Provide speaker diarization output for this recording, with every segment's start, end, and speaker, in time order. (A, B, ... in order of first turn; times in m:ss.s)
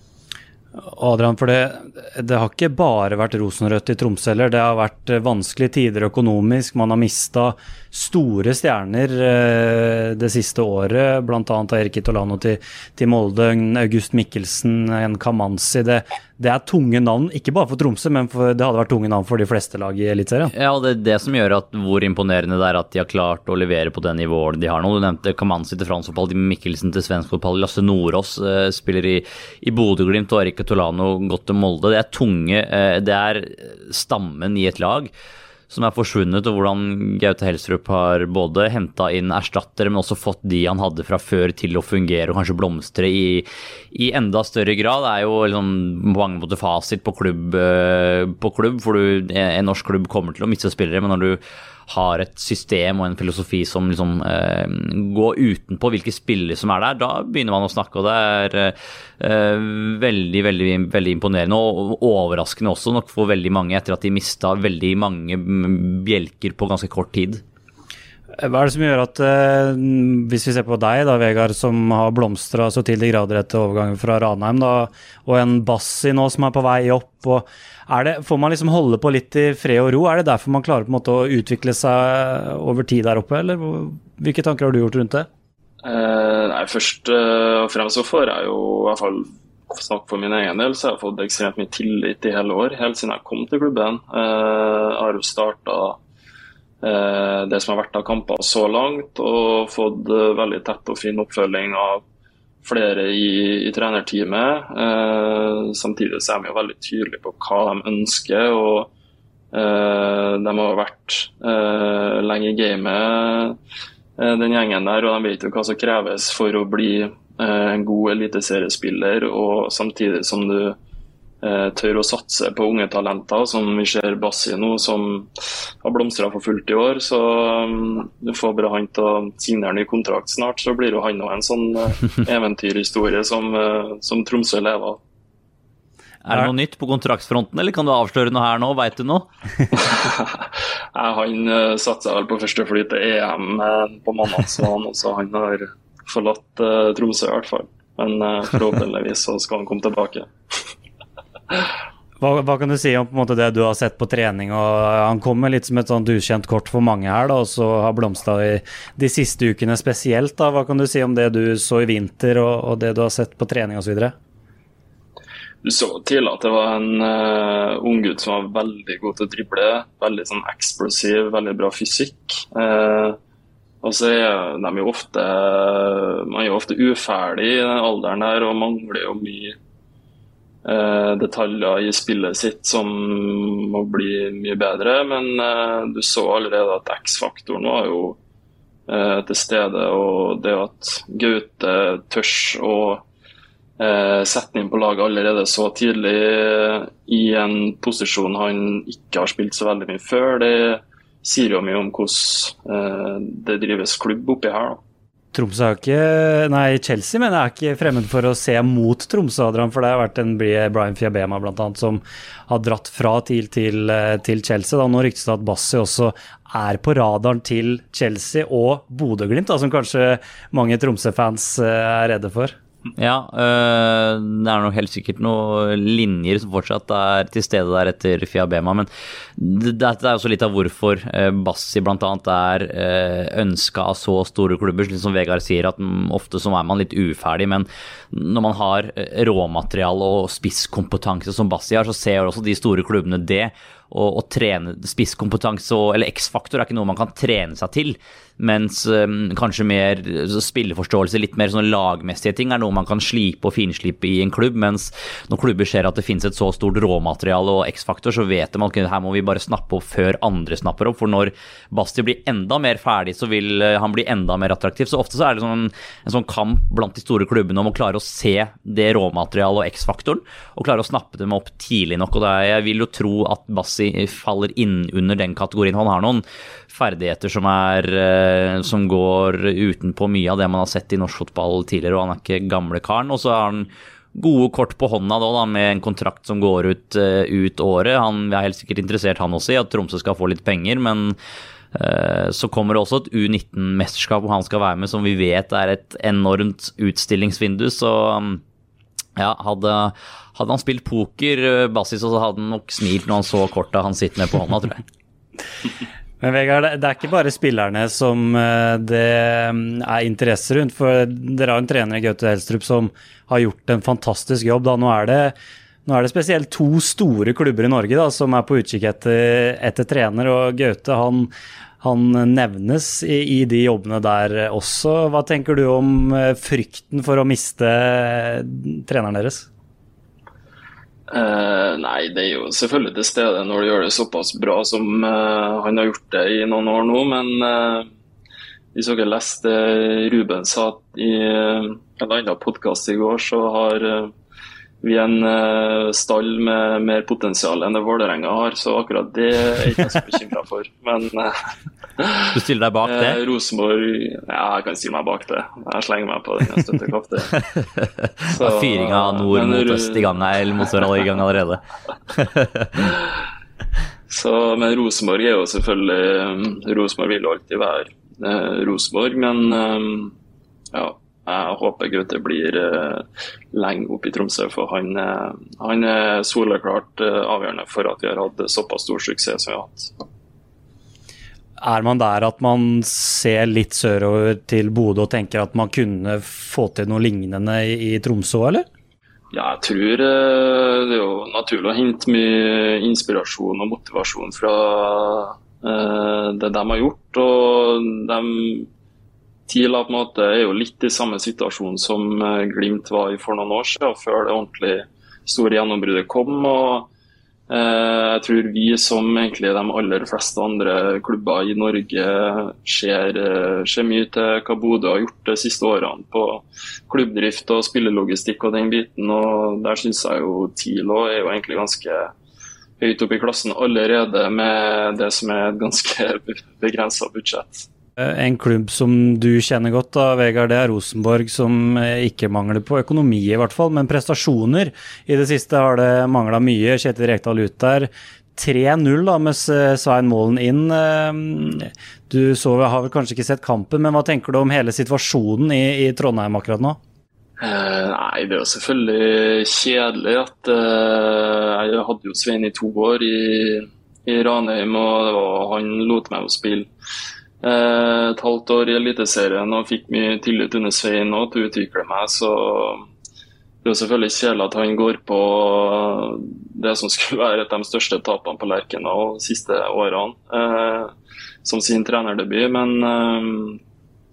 0:00.8-0:20.5 A
0:20.5-0:35.1 B
0:35.7-1:07.4 B
1:08.4-1:25.3 A
1:25.8-1:36.0 C
1:36.8-1:42.0 C
1:42.6-1:48.9 C
1:49.5-1:53.6 C
1:54.2-2:00.8 C
2:01.4-2:05.3 C
2:05.8-2:15.0 C
2:16.2-2:19.3 B
2:19.7-2:30.3 C
2:32.2-2:44.1 A
2:45.6-2:53.2 C
2:53.8-2:59.6 C
3:00.6-3:08.2 C
3:08.9-3:13.0 C
3:13.8-3:24.8 C
3:25.3-3:42.6 A
3:43.0-4:51.2 B
4:51.7-4:58.4 B
4:59.2-5:04.8 B
5:06.2-5:15.4 A
5:15.9-5:21.3 A
5:21.8-5:29.5 A
5:31.1-5:37.9 C
5:38.7-5:44.1 C
5:44.8-5:51.3 C
5:52.0-5:57.4 C
5:52.3-5:53.2 B
5:57.4-6:02.9 B
5:58.3-6:00.2 C
6:04.1-6:10.1 C
6:10.7-6:19.9 C
6:21.6-6:28.6 A
6:29.3-6:38.7 C
6:39.5-6:46.9 C
6:47.5-7:02.1 C
7:02.8-7:07.7 C
7:08.0-7:26.8 A
7:27.4-7:36.7 C
7:37.4-7:42.9 C
7:43.6-7:50.9 C
7:51.4-7:53.6 C